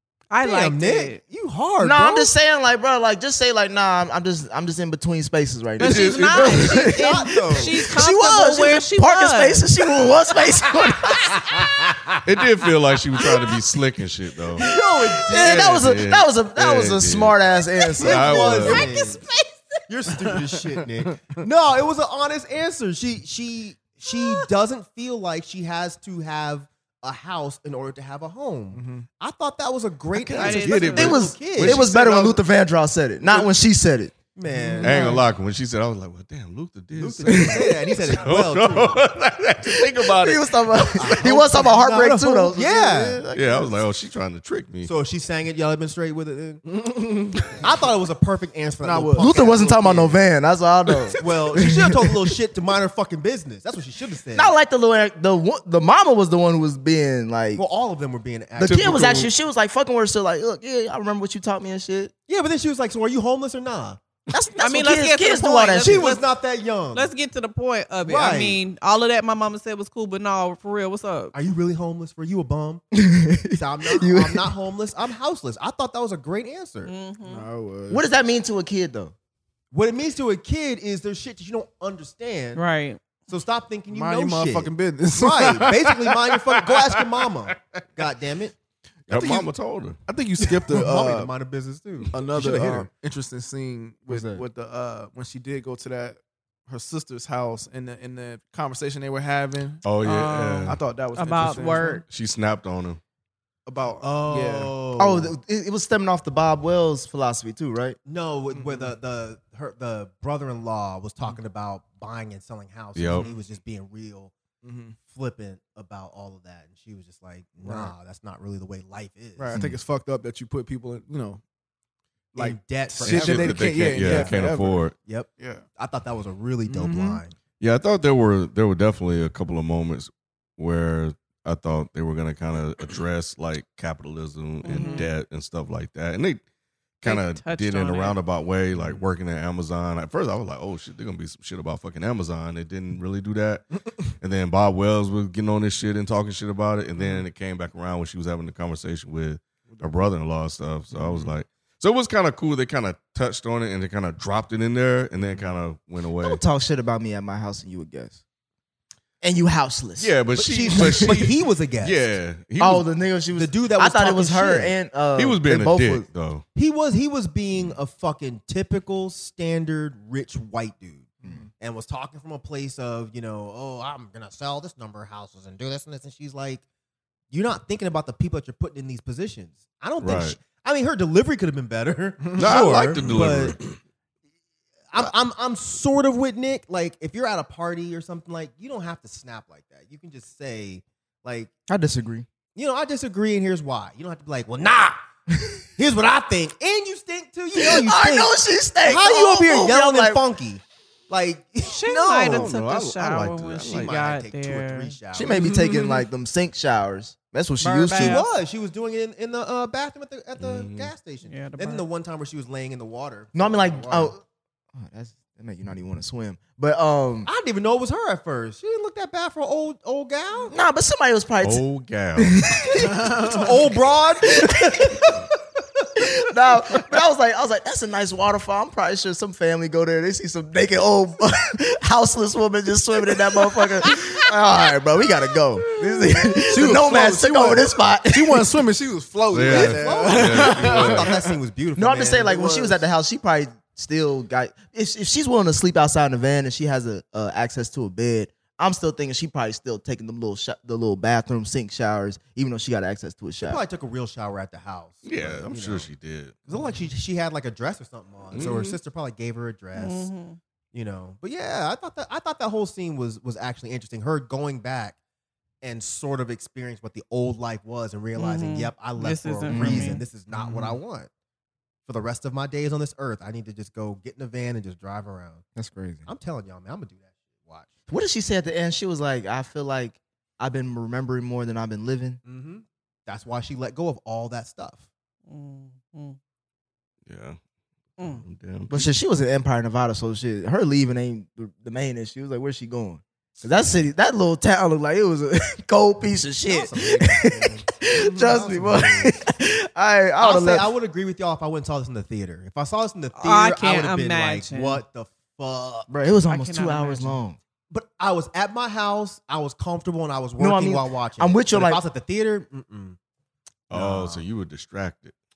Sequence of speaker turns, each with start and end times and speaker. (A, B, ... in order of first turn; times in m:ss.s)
0:00.3-0:01.2 A
0:00.4-0:02.3 B
0:01.8-0:11.6 C
0:05.8-0:06.8 D
0:05.8-0:10.4 A
0:06.8-0:07.8 B
0:12.2-0:14.6 D
0:14.6-0:15.9 B
0:14.6-0:18.4 C
0:15.4-0:17.4 D
0:18.0-0:19.2 B
0:18.0-0:18.9 D
0:18.1-0:19.8 A
0:19.9-0:31.9 B
0:20.2-0:21.3 E
0:24.1-0:24.5 A
0:28.7-0:29.1 E
0:30.1-0:32.4 D
0:30.4-0:31.2 A
0:31.0-0:34.2 C
0:34.4-0:35.2 B
0:34.5-0:35.2 E
0:34.8-0:41.2 D
0:36.9-0:39.1 B
0:37.3-0:37.8 C
0:40.0-0:43.8 C
0:41.0-0:43.2 B
0:43.3-0:44.9 D
0:44.8-0:46.6 B
0:46.7-0:47.6 E
0:47.6-0:50.2 B
0:48.8-0:49.4 E
0:49.2-0:52.3 C
0:51.2-0:54.5 B
0:54.4-0:57.6 C
0:57.6-0:59.3 B
0:58.6-1:02.1 C
0:58.6-0:59.3 D
1:02.3-1:04.0 B
1:04.3-1:06.2 C
1:04.6-1:06.2 A
1:05.8-1:07.1 B
1:06.9-1:11.3 A
1:08.0-1:08.6 B
1:11.3-1:12.8 B
1:12.9-1:14.5 C
1:13.6-1:16.9 B
1:16.8-1:17.4 A
1:17.3-1:18.0 E
1:17.9-1:19.1 C
1:19.7-1:22.6 B
1:22.6-1:23.0 A
1:23.3-1:28.6 B
1:23.9-1:27.1 E
1:29.1-1:29.5 B
1:29.1-1:30.0 D
1:30.1-1:31.3 E
1:30.4-1:32.9 B
1:32.1-1:39.8 E
1:34.1-1:34.4 C
1:39.8-1:40.8 D
1:40.0-1:42.0 A
1:40.7-1:42.0 E
1:41.6-1:42.0 B
1:42.1-1:43.0 D
1:43.7-1:44.7 E
1:44.0-1:45.3 B
1:45.0-1:48.0 C
1:48.0-1:54.3 B
1:48.5-1:48.9 E
1:53.0-1:53.3 D
1:54.6-1:55.0 E
1:55.0-1:59.7 B
1:57.6-1:57.9 E
1:59.4-2:01.4 E
2:02.3-2:04.9 E
2:02.4-2:07.4 B
2:03.0-2:05.0 D
2:05.4-2:05.6 E
2:06.7-2:07.2 E
2:07.6-2:16.4 D
2:14.6-2:15.1 A
2:14.7-2:15.1 E
2:17.0-2:23.7 D
2:17.0-2:18.2 A
2:18.8-2:19.0 E
2:24.2-2:36.4 D
2:27.0-2:27.3 E
2:29.7-2:30.0 E
2:30.9-2:31.3 E
2:36.2-2:38.2 C
2:39.2-2:40.2 C
2:40.0-2:42.9 D
2:40.4-2:42.2 B
2:40.7-2:41.2 C
2:42.6-2:46.1 C
2:43.3-2:44.8 B
2:45.2-2:46.4 D
2:46.6-2:56.6 B
2:57.3-3:03.6 B
3:00.0-3:00.4 D
3:02.3-3:03.2 E
3:02.4-3:03.8 D
3:04.9-3:11.5 B
3:11.7-3:12.3 C
3:12.6-3:15.0 B
3:15.8-3:18.3 B
3:17.6-3:20.2 C
3:18.8-3:25.5 B
3:21.7-3:25.0 A
3:22.3-3:23.9 D
3:25.1-3:28.3 C
3:25.3-3:26.1 E
3:27.6-3:28.3 A
3:27.9-3:34.1 B
3:30.4-3:30.9 D
3:31.2-3:31.8 A
3:33.3-3:34.2 C
3:34.7-3:37.3 C
3:37.2-3:40.5 B
3:40.5-3:41.6 C
3:41.4-3:42.4 D
3:42.2-3:42.9 C
3:42.8-3:43.7 E
3:43.3-3:45.3 B
3:44.4-3:45.0 C
3:46.0-3:58.5 C
3:56.3-4:01.2 E
3:56.5-3:56.9 B
3:59.3-4:01.2 D
3:59.4-4:02.8 B
4:01.8-4:13.6 C
4:13.4-4:15.9 B
4:15.0-4:16.4 D
4:16.4-4:20.1 B
4:18.3-4:18.8 D
4:19.8-4:20.4 A
4:20.7-4:25.0 B
4:25.6-4:31.1 B
4:28.2-4:30.0 A
4:30.4-4:30.8 E
4:31.9-4:35.4 B
4:35.6-4:36.0 C
4:36.0-4:37.7 B
4:37.9-4:42.2 C
4:42.2-4:44.8 B
4:45.3-4:46.2 A
4:47.1-4:47.4 D
4:48.0-4:48.2 A
4:48.0-4:48.9 D
4:48.7-5:00.7 C
4:56.5-4:59.1 B
5:00.2-5:05.9 B
5:03.2-5:04.8 A
5:05.9-5:07.4 C
5:06.3-5:07.2 A
5:07.7-5:13.0 B
5:10.4-5:11.8 C
5:13.7-5:15.2 D
5:13.7-5:14.3 B